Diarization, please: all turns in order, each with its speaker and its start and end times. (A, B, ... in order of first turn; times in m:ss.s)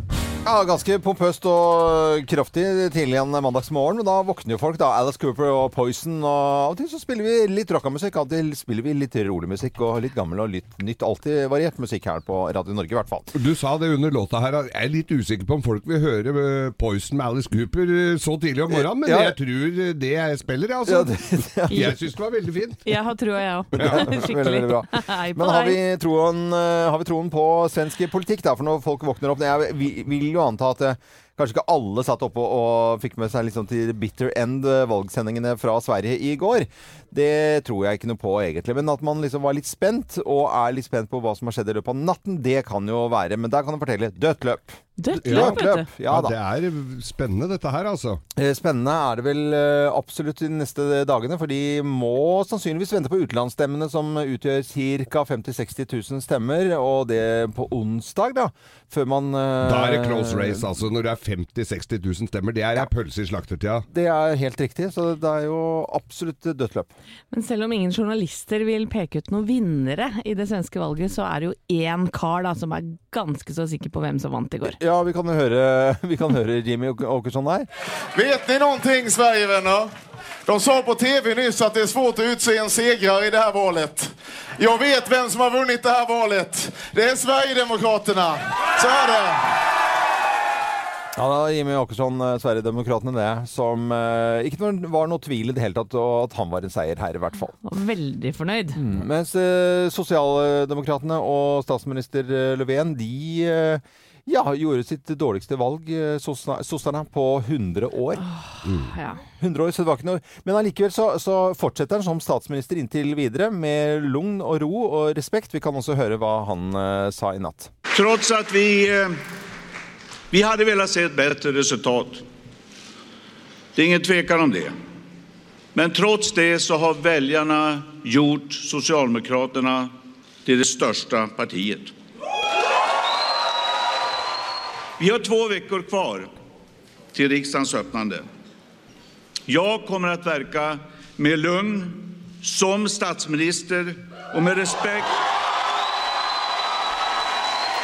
0:00.4-0:13.3 A
0:13.3-0:21.2 B
0:18.7-0:19.4 A
0:20.9-0:22.0 A
0:21.7-0:22.8 B
0:22.8-0:25.8 C
0:23.8-0:46.3 A
0:23.8-0:24.2 B
0:45.0-0:45.9 C
0:45.2-0:48.2 B
0:48.4-1:00.7 A
0:59.6-1:03.9 B
1:03.9-1:06.9 A
1:07.3-1:14.8 C
1:14.7-1:17.7 A
1:18.1-1:19.9 D
1:20.5-1:29.5 D
1:31.2-1:37.5 A
1:37.6-1:38.8 C
1:38.8-1:48.2 A
1:48.2-1:49.2 C
1:48.7-1:48.9 B
1:49.4-1:57.7 A
1:57.9-1:59.2 E
2:00.3-2:02.2 E
2:03.8-2:04.7 E
2:05.7-2:09.9 E
2:10.4-2:11.9 E
2:15.0-2:16.3 E
2:17.1-2:18.3 E
2:19.5-2:25.2 E